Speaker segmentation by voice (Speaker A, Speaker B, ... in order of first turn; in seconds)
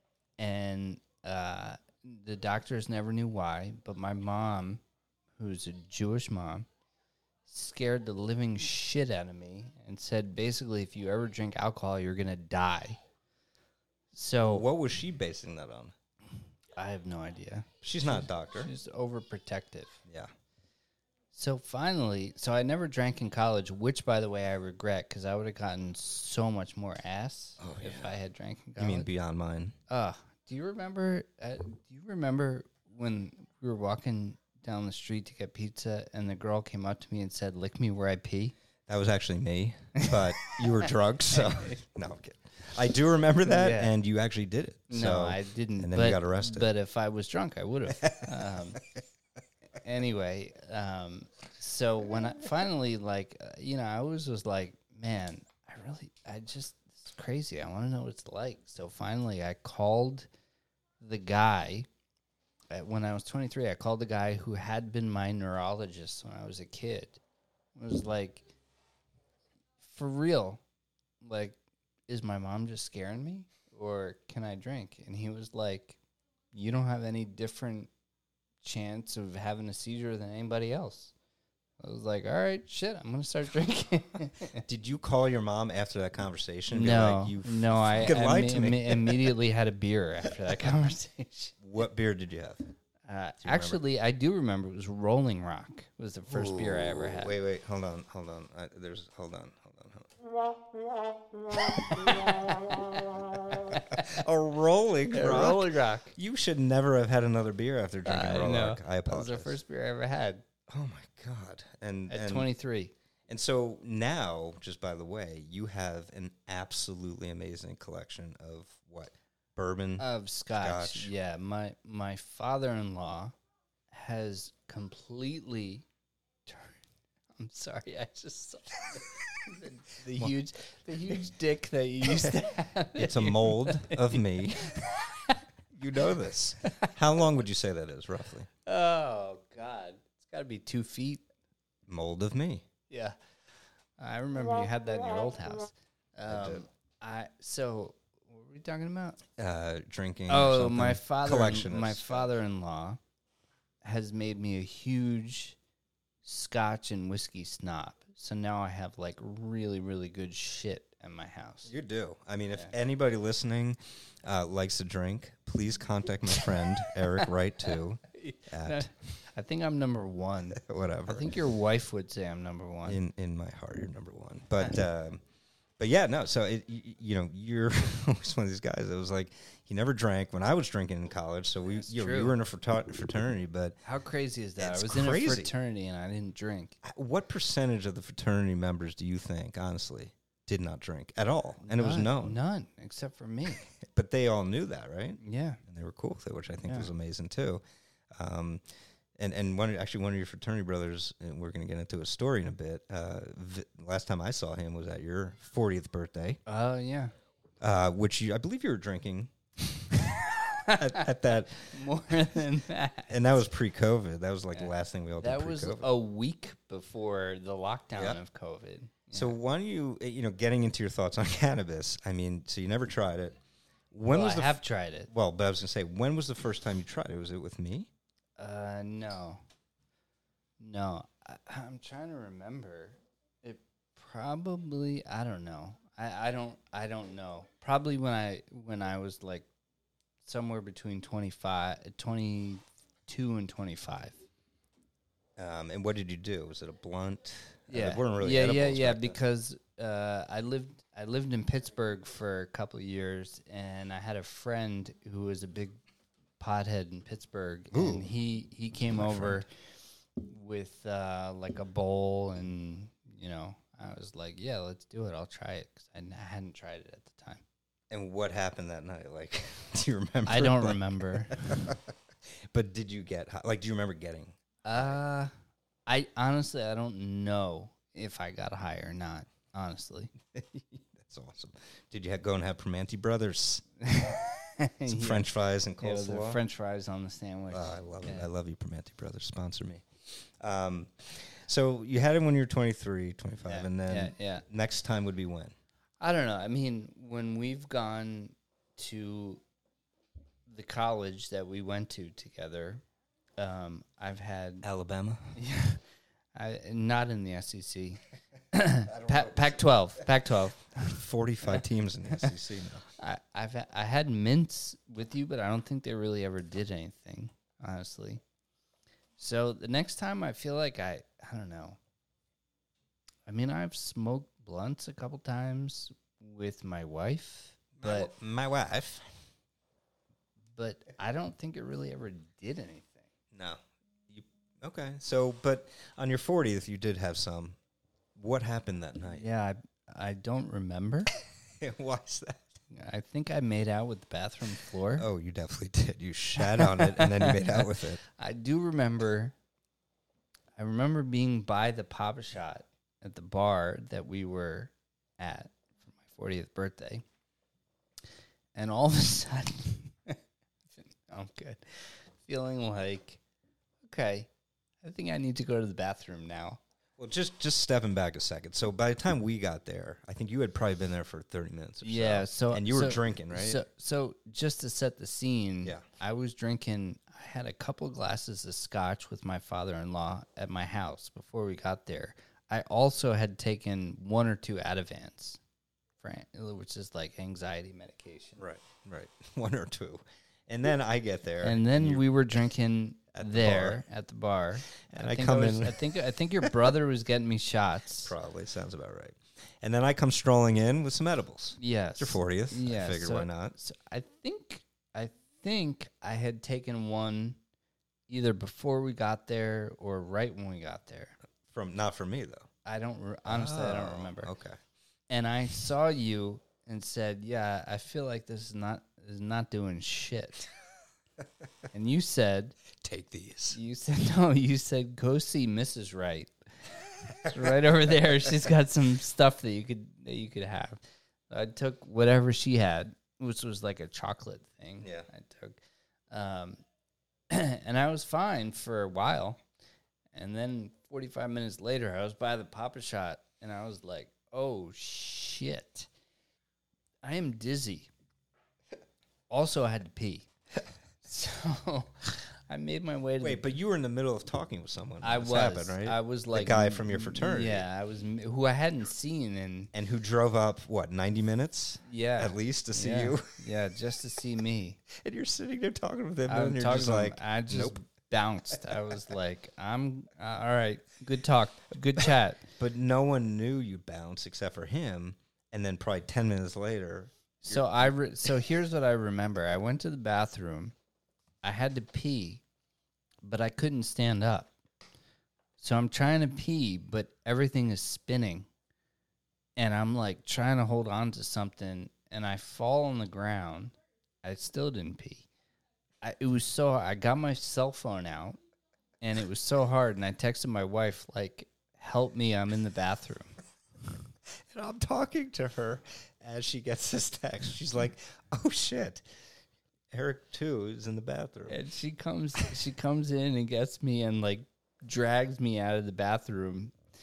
Speaker A: 0.4-4.8, 5.4-6.7, 7.5-13.0, 14.1-14.7, 16.8-20.0, 21.3-29.1, 29.9-38.5, 40.0-41.8, 43.4-43.9, 44.9-48.8, 49.8-60.3, 61.0-61.9, 62.7-67.2, 67.8-68.5, 69.8-70.6, 71.2-76.0, 76.5-77.9, 78.6-81.1, 81.8-84.7, 86.7-91.5, 93.1-97.3, 101.7-102.8, 103.4-104.2, 105.1-106.2, 108.0-110.4, 112.1-112.9, 120.0-123.3, 123.9-125.9, 126.5-126.8, 127.4-135.4, 136.6-136.9, 138.7-141.2, 142.9-143.2, 144.0-149.2, 150.3-153.0, 153.8-155.6, 156.2-161.7, 168.1-173.0, 181.8-182.4, 183.8-186.8, 191.6-193.7, 195.2-195.6, 206.5-207.1, 210.5-213.2, 214.5-219.4, 224.1-225.1, 228.4-229.4, 230.6-239.5, 240.2-244.2, 247.7-255.8, 256.4-259.5, 260.2-267.4, 270.3-271.8, 274.6-275.3, 275.9-280.1, 283.8-288.3, 293.4-294.4, 296.0-299.4, 300.5-302.8, 303.4-304.7, 305.3-305.8, 306.3-308.0, 308.5-312.3, 313.0-318.2, 319.2-321.8, 323.3-328.1, 330.6-333.1, 339.1-341.1, 342.7-345.1, 346.4-349.3, 350.6-357.0, 358.6-360.2, 360.7-363.2, 363.8-364.3, 364.8-366.6, 371.8-385.4, 386.0-388.4, 391.4-398.1, 401.6-407.4, 408.1-411.2, 412.6-414.3, 415.1-420.5, 421.7-422.6, 423.5-426.3, 427.1-435.6, 436.1-436.6, 437.3-439.4, 440.1-445.9, 447.0-447.9, 449.3-450.3, 451.0-453.5, 455.0-459.7, 461.9-464.8, 466.3-472.5, 477.4-480.7, 481.4-482.4, 483.2-484.5, 485.6-488.5, 489.6-495.3, 496.0-498.4, 499.0-503.3, 511.5-516.7
Speaker B: 14.5-15.9, 17.8-18.7, 27.6-28.1, 28.8-29.8, 38.9-46.7, 48.0-48.6, 84.7-89.3, 91.6-92.6, 93.4-93.8, 96.3-100.1, 101.5-102.6, 103.5-109.5, 110.7-112.5, 113.3-120.1, 120.6-121.1, 132.0-134.9, 135.7-138.5, 141.9-142.7, 146.3-146.6, 149.4-152.3, 161.7-168.9, 170.5-171.3, 172.9-175.2, 175.8-183.8, 184.6-185.5, 186.8-192.4, 193.6-197.6, 198.1-198.6, 199.2-206.4, 207.6-211.7, 213.1-215.9, 219.1-223.4, 223.9-227.9, 245.4-249.2, 257.7-258.1, 258.9-259.4, 267.9-271.9, 272.5-275.0, 280.3-283.6, 284.9-286.4, 287.5-295.5, 304.6-305.4, 308.9-309.6, 310.9-312.8, 327.8-329.1, 333.3-337.6, 338.2-339.3, 341.6-342.5, 345.0-348.0, 367.0-373.6, 388.4-392.1, 393.1-393.8, 394.9-396.7, 398.0-403.6, 411.5-412.5, 413.3-414.6, 422.8-423.6, 434.8-435.1, 453.2-457.7, 459.7-463.4, 464.9-467.8, 472.6-477.9, 504.5-509.1, 509.9-511.6